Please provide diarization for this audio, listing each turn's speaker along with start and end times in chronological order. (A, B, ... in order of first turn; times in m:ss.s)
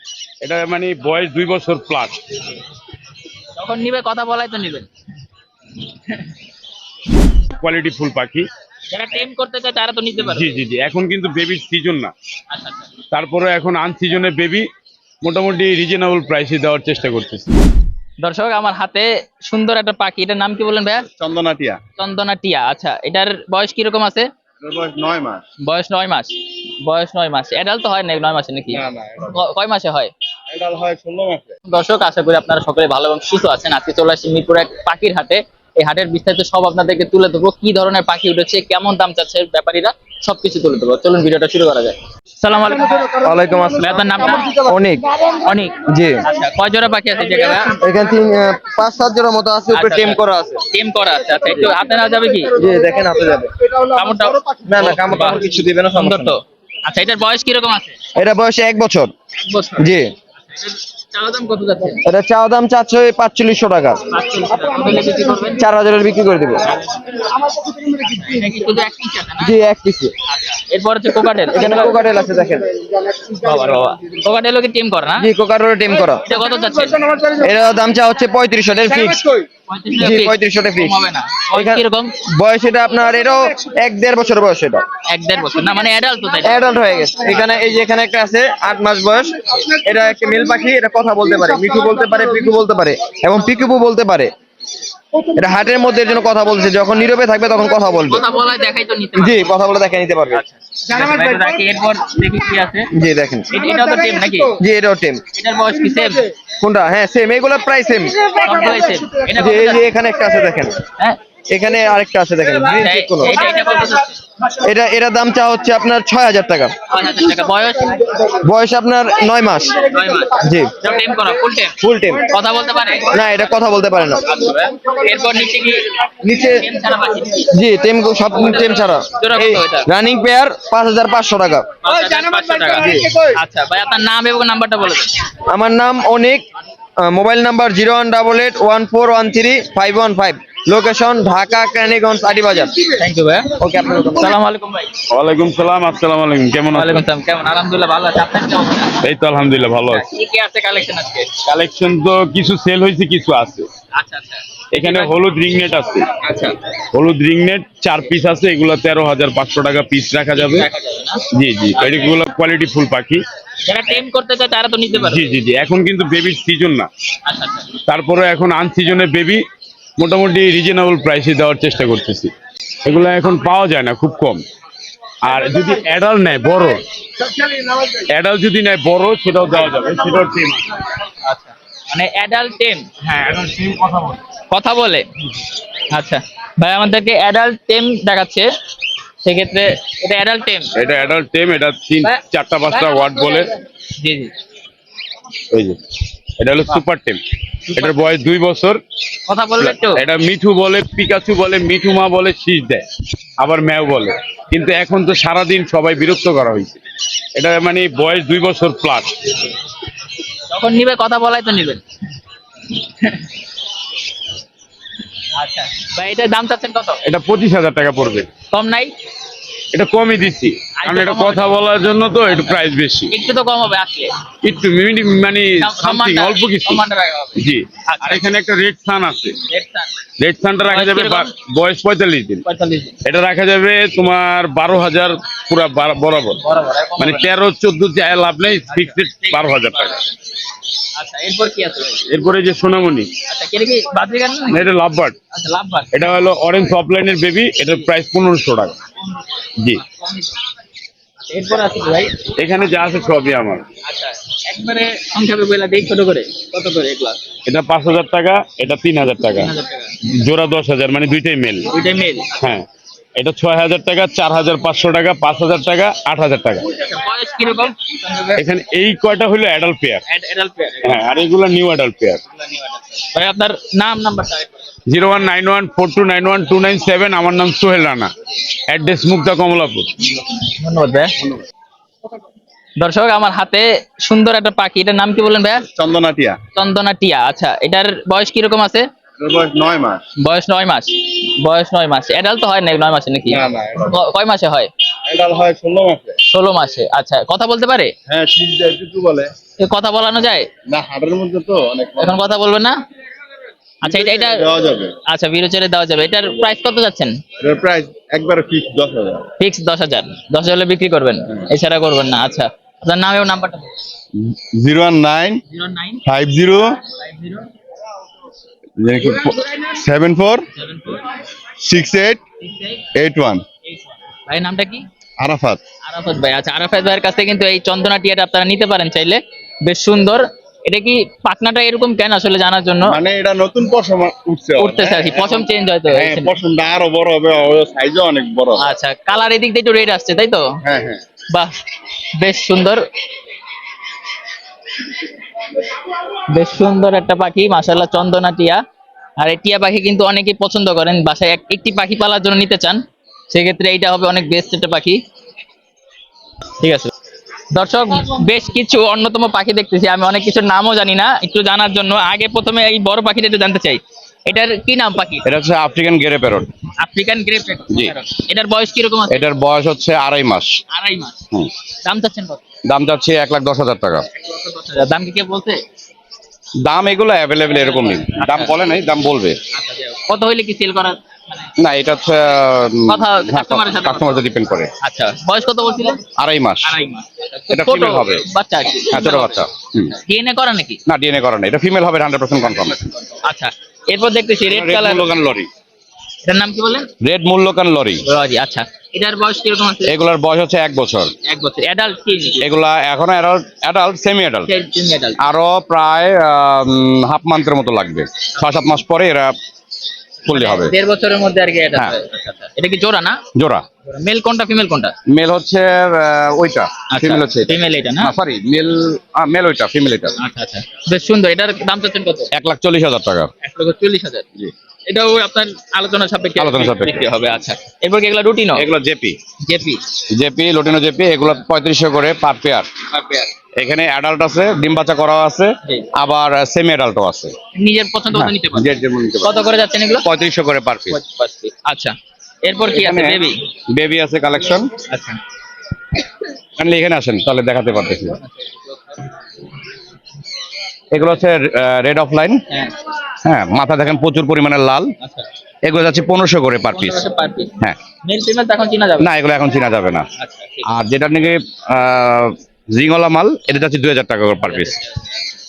0:00.4-0:02.2 A
0:03.6-0:04.9 B
0:07.6-0:08.4 A
0:08.9-0:10.6 B
0:10.2-0:12.1 A
0:12.5-0:12.9 B
0:13.1-0:14.7 A
0:15.2-0:17.5 A
0:18.2-0:21.1 B
0:21.2-0:21.8 C
0:22.0-0:24.3 B
0:24.6-0:25.4 C
0:25.6-0:30.1 B
0:28.9-0:29.2 C
0:30.5-0:31.5 C
0:31.7-0:43.2 B
0:43.2-0:44.0 D
0:43.8-0:44.6 B
0:44.6-0:45.0 D
0:45.3-0:47.8 B
0:45.9-0:46.2 D
0:47.8-0:50.6 D
0:49.7-0:50.2 B
0:50.7-0:52.6 B
0:52.6-0:53.5 D
0:53.9-0:58.0 B
0:54.6-0:56.3 D
0:58.2-0:59.1 D
0:59.4-1:02.0 B
0:59.8-1:00.1 D
1:02.0-1:04.0 D
1:04.1-1:05.7 B
1:05.6-1:06.7 D
1:06.7-1:07.1 B
1:07.8-1:09.6 B
1:09.4-1:10.1 D
1:10.3-1:12.0 B
1:11.5-1:12.8 D
1:13.3-1:15.3 B
1:15.2-1:16.2 D
1:16.2-1:17.2 B
1:17.4-1:19.4 D
1:19.7-1:22.1 B
1:20.0-1:21.0 D
1:21.5-1:24.8 D
1:25.1-1:26.6 B
1:26.4-1:34.3 D
1:35.3-1:38.2 D
1:38.1-1:39.7 B
1:39.2-1:40.4 D
1:40.2-1:42.9 B
1:43.0-1:43.5 D
1:43.5-1:44.6 B
1:44.6-1:45.2 D
1:45.3-1:46.3 B
1:46.6-1:48.5 D
1:48.4-1:50.0 B
1:49.3-1:50.8 D
1:51.5-1:53.4 D
1:52.7-1:54.2 B
1:54.6-1:56.7 D
1:56.9-1:58.1 B
1:58.4-1:59.8 D
1:59.8-2:01.8 B
2:00.4-2:00.7 D
2:01.8-2:02.2 D
2:02.3-2:03.5 B
2:03.1-2:04.2 D
2:04.2-2:05.9 B
2:06.2-2:06.6 D
2:06.4-2:07.4 B
2:07.5-2:11.8 D
2:08.3-2:09.9 B
2:11.8-2:15.2 B
2:12.6-2:13.3 D
2:15.5-2:16.4 D
2:17.0-2:22.8 D
2:23.0-2:23.5 B
2:23.6-2:24.3 D
2:24.0-2:24.9 B
2:25.1-2:27.0 A
2:26.7-2:29.0 B
2:29.0-2:30.0 A
2:29.8-2:31.3 B
2:31.4-2:33.7 A
2:34.0-2:35.2 B
2:34.7-2:36.1 A
2:36.2-2:36.6 B
2:36.9-2:40.6 A
2:40.3-2:41.2 B
2:41.3-2:43.2 A
2:41.8-2:42.2 B
2:43.6-2:45.4 B
2:45.0-2:46.9 A
2:47.2-2:47.7 B
2:47.9-2:49.4 A
2:50.0-2:52.3 A
2:52.8-2:54.4 A
2:55.2-2:56.8 A
2:57.8-3:00.7 A
3:01.2-3:05.1 B
3:05.9-3:08.5 B
3:09.2-3:10.7 B
3:10.8-3:13.5 A
3:12.7-3:14.3 B
3:15.5-3:15.8 A
3:16.4-3:17.2 A
3:17.7-3:18.0 B
3:17.7-3:18.8 A
3:19.3-3:20.0 B
3:19.6-3:22.8 A
3:23.4-3:26.8 A
3:27.4-3:29.2 A
3:30.5-3:31.8 B
3:35.4-3:37.0 B
3:37.0-3:38.3 A
3:38.5-3:38.9 B
3:39.7-3:43.1 A
3:40.8-3:41.6 B
3:42.3-3:44.1 B
3:44.4-3:46.8 A
3:45.6-3:48.2 B
3:47.4-3:49.4 A
3:49.5-3:49.9 B
3:50.2-3:52.4 A
3:50.7-3:51.3 B
3:52.4-3:52.9 B
3:53.0-3:56.4 A
3:56.4-3:57.3 B
3:57.0-4:00.0 A
3:58.7-4:00.1 B
4:01.0-4:02.0 B
4:02.0-4:03.1 A
4:03.3-4:04.7 B
4:04.5-4:05.2 A
4:05.3-4:06.1 B
4:05.9-4:08.8 A
4:09.8-4:10.4 B
4:11.3-4:12.2 B
4:12.4-4:13.6 A
4:13.8-4:17.2 B
4:17.4-4:19.5 A
4:19.3-4:19.9 B
4:20.1-4:21.7 A
4:21.7-4:22.3 B
4:22.4-4:26.6 A
4:26.7-4:28.4 B
4:28.4-4:30.0 A
4:30.1-4:31.0 B
4:30.8-4:32.2 A
4:32.4-4:34.6 B
4:34.9-4:38.1 A
4:38.7-4:39.9 A
4:40.4-4:41.2 B
4:42.8-4:45.6 B
4:45.9-4:46.4 C
4:46.6-4:48.8 B
4:49.2-4:50.0 C
4:50.2-4:54.7 B
4:55.1-4:56.1 C
4:56.3-4:57.9 B
4:58.1-4:59.3 C
4:59.6-5:00.5 B
5:00.7-5:02.1 C
5:02.0-5:02.7 B
5:03.8-5:07.2 B
5:07.4-5:09.2 C
5:09.4-5:13.7 B
5:14.3-5:15.3 E
5:15.0-5:15.3 C
5:15.5-5:16.0 B
5:16.1-5:16.3 E
5:16.1-5:16.8 C
5:16.8-5:17.5 B
5:18.8-5:20.4 E
5:20.6-5:21.0 B
5:21.6-5:22.2 C
5:21.7-5:22.2 E
5:22.4-5:22.8 B
5:23.0-5:23.4 E
5:23.7-5:24.8 B
5:25.2-5:25.6 E
5:25.2-5:25.6 C
5:25.8-5:33.0 B
5:33.9-5:34.4 C
5:34.6-5:36.3 B
5:34.7-5:35.2 A
5:35.9-5:37.6 A
5:37.7-5:38.5 C
5:38.6-5:40.4 B
5:41.3-5:41.6 B
5:42.2-5:42.8 B
5:46.3-5:48.6 B
5:49.2-5:52.8 B
5:53.3-5:55.0 B
5:56.6-5:56.9 B
5:57.5-6:05.3 B
6:05.2-6:06.5 E
6:06.8-6:09.2 B
6:07.7-6:07.9 E
6:09.1-6:10.6 E
6:10.7-6:11.2 B
6:11.8-6:12.4 B
6:12.6-6:14.0 E
6:14.2-6:15.6 B
6:16.6-6:19.4 E
6:17.5-6:18.6 B
6:19.5-6:21.5 B
6:21.6-6:24.7 E
6:22.8-6:24.3 B
6:24.8-6:26.0 B
6:26.2-6:26.7 E
6:26.6-6:30.8 B
6:27.5-6:28.2 E
6:28.9-6:29.9 E
6:30.9-6:32.9 E
6:32.6-6:35.1 B
6:34.5-6:35.5 E
6:36.2-6:36.9 B
6:37.0-6:38.0 E
6:38.0-6:40.0 B
6:39.8-6:41.1 E
6:41.3-6:42.5 B
6:42.4-6:44.5 E
6:44.5-6:45.2 B
6:45.2-6:49.3 E
6:50.2-6:53.2 B
6:50.3-6:50.7 E
6:53.3-6:53.6 E
6:53.9-6:54.9 B
6:55.1-7:00.1 E
6:56.9-6:58.1 B
7:00.2-7:02.3 B
7:02.3-7:03.3 E
7:03.4-7:04.2 B
7:04.9-7:08.6 B
7:06.4-7:07.0 E
7:08.6-7:09.2 E
7:09.4-7:09.8 B
7:10.1-7:12.7 E
7:12.9-7:13.3 B
7:13.6-7:17.3 E
7:17.6-7:20.1 B
7:18.1-7:19.4 E
7:20.0-7:21.0 E
7:20.9-7:23.4 B
7:22.7-7:24.7 E
7:24.9-7:25.2 B
7:26.6-7:28.2 E
7:28.2-7:29.0 B
7:30.9-7:32.4 E
7:33.2-7:34.9 E
7:35.0-7:35.3 B
7:35.6-7:37.0 E
7:36.7-7:37.5 B
7:38.0-7:39.1 B
7:39.0-7:40.1 E
7:40.2-7:40.7 B
7:40.6-7:44.8 E
7:44.4-7:45.1 B